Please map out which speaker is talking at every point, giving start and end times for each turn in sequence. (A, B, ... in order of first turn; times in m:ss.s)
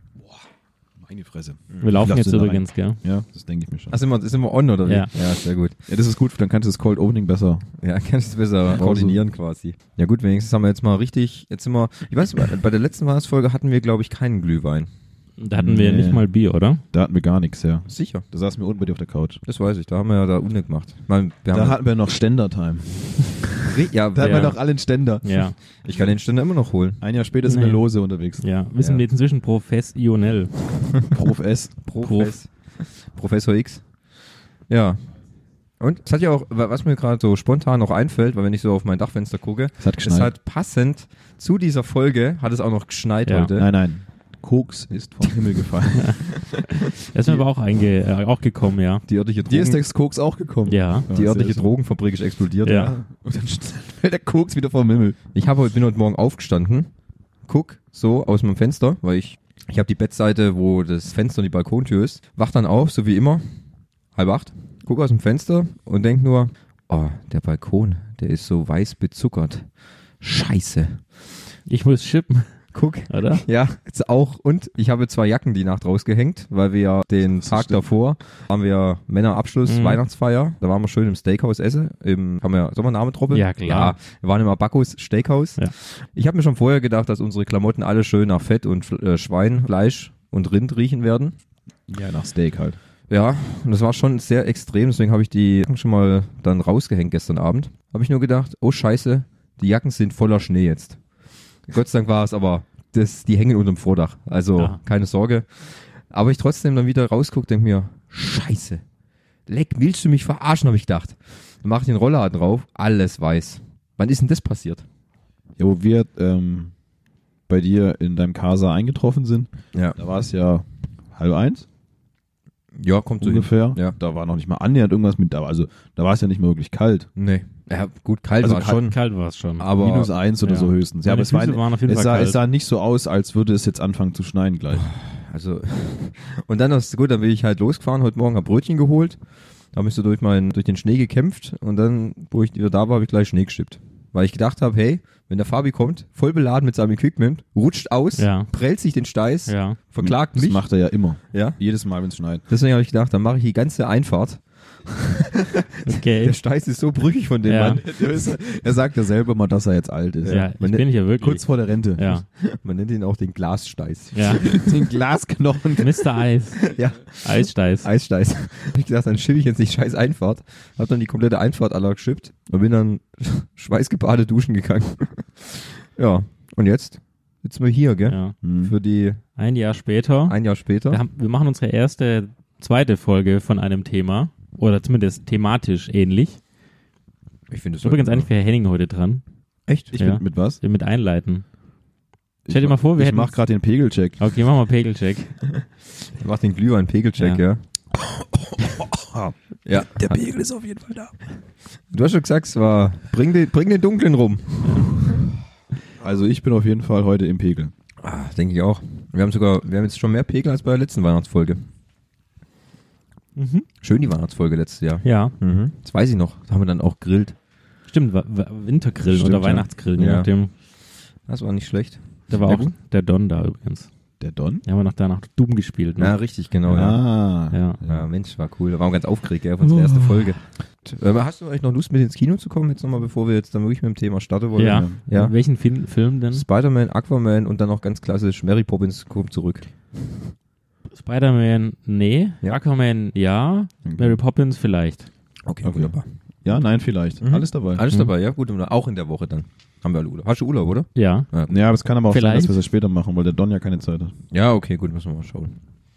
0:01.0-0:04.0 A
0:01.8-0:03.0 B
0:03.9-0:05.8 C
0:05.9-0:07.7 A
0:07.8-0:14.9 C
0:08.7-0:09.2 A
0:15.4-0:16.8 B
0:15.6-0:16.3 A
0:16.9-0:19.4 A
0:17.9-0:18.2 C
0:19.5-0:21.8 C
0:21.5-0:25.4 A
0:23.7-0:24.5 C
0:24.2-0:24.6 B
0:25.2-0:25.6 B
0:25.8-0:27.0 C
0:27.0-0:28.5 A
0:27.5-0:27.8 B
0:28.4-0:30.5 B
0:31.1-0:31.8 A
0:31.9-0:33.8 C
0:32.0-0:32.4 B
0:34.7-0:35.0 C
0:35.8-0:43.7 C
0:39.8-0:40.3 A
0:43.3-0:43.5 B
0:43.6-0:46.2 A
0:46.0-0:49.0 B
0:49.1-0:49.8 C
0:49.5-0:51.7 A
0:50.7-0:51.1 B
0:51.1-0:52.9 C
0:52.6-0:52.9 B
0:52.7-0:55.2 A
0:55.4-0:56.9 C
0:57.5-1:03.5 C
1:04.2-1:09.7 C
1:10.2-1:11.0 C
1:11.7-1:13.4 B
1:12.7-1:31.4 C
1:17.2-1:17.8 A
1:19.7-1:20.0 B
1:23.3-1:24.0 B
1:31.9-1:32.8 A
1:33.1-1:41.0 C
1:41.7-1:48.8 C
1:49.5-1:54.8 C
1:55.6-1:56.7 A
1:57.5-2:01.7 A
2:02.8-2:04.0 C
2:03.2-2:07.1 A
2:07.2-2:09.0 C
2:08.4-2:08.8 A
2:08.7-2:09.7 B
2:09.6-2:10.1 C
2:09.7-2:14.9 A
2:10.4-2:12.4 B
2:14.8-2:19.2 C
2:19.7-2:30.6 C
2:28.2-2:28.5 B
2:29.5-2:29.8 B
2:30.0-2:32.4 A
2:31.3-2:31.6 C
2:32.5-2:38.0 C
2:35.9-2:36.4 B
2:37.5-2:37.8 B
2:37.8-2:40.5 A
2:40.2-2:40.8 C
2:40.3-2:42.3 B
2:41.2-2:42.2 A
2:42.4-2:44.6 C
2:44.1-2:44.4 B
2:44.4-2:46.1 A
2:45.8-2:47.9 B
2:46.7-2:59.2 C
2:58.1-2:58.4 B
2:58.4-2:58.7 A
2:59.4-3:00.4 B
3:00.3-3:01.0 C
3:00.9-3:06.4 B
3:07.5-3:08.3 C
3:07.8-3:09.2 B
3:09.7-3:09.9 C
3:09.9-3:10.6 A
3:10.0-3:11.4 B
3:12.5-3:14.2 A
3:12.5-3:13.4 B
3:14.2-3:15.3 B
3:16.2-3:17.6 C
3:18.6-3:21.1 A
3:19.7-3:20.2 C
3:21.9-3:24.6 C
3:24.6-3:24.9 B
3:26.0-3:27.7 A
3:28.0-3:31.6 C
3:33.4-3:33.7 B
3:33.8-3:37.4 C
3:35.0-3:35.3 B
3:37.9-3:40.5 B
3:39.1-3:39.7 A
3:40.0-3:40.3 C
3:41.3-3:42.7 C
3:42.3-3:43.9 B
3:44.2-3:44.6 A
3:44.7-3:46.1 B
3:46.0-3:47.0 C
3:46.7-3:48.1 A
3:47.5-3:47.8 B
3:47.9-3:55.3 C
3:49.6-3:50.3 A
3:54.6-3:56.4 B
3:54.6-3:55.0 A
3:56.3-3:59.7 C
4:00.9-4:05.1 B
4:03.8-4:04.2 A
4:05.5-4:06.1 C
4:05.6-4:07.8 A
4:07.2-4:11.5 C
4:11.0-4:11.3 B
4:11.5-4:14.1 A
4:12.1-4:12.6 B
4:14.3-4:15.6 C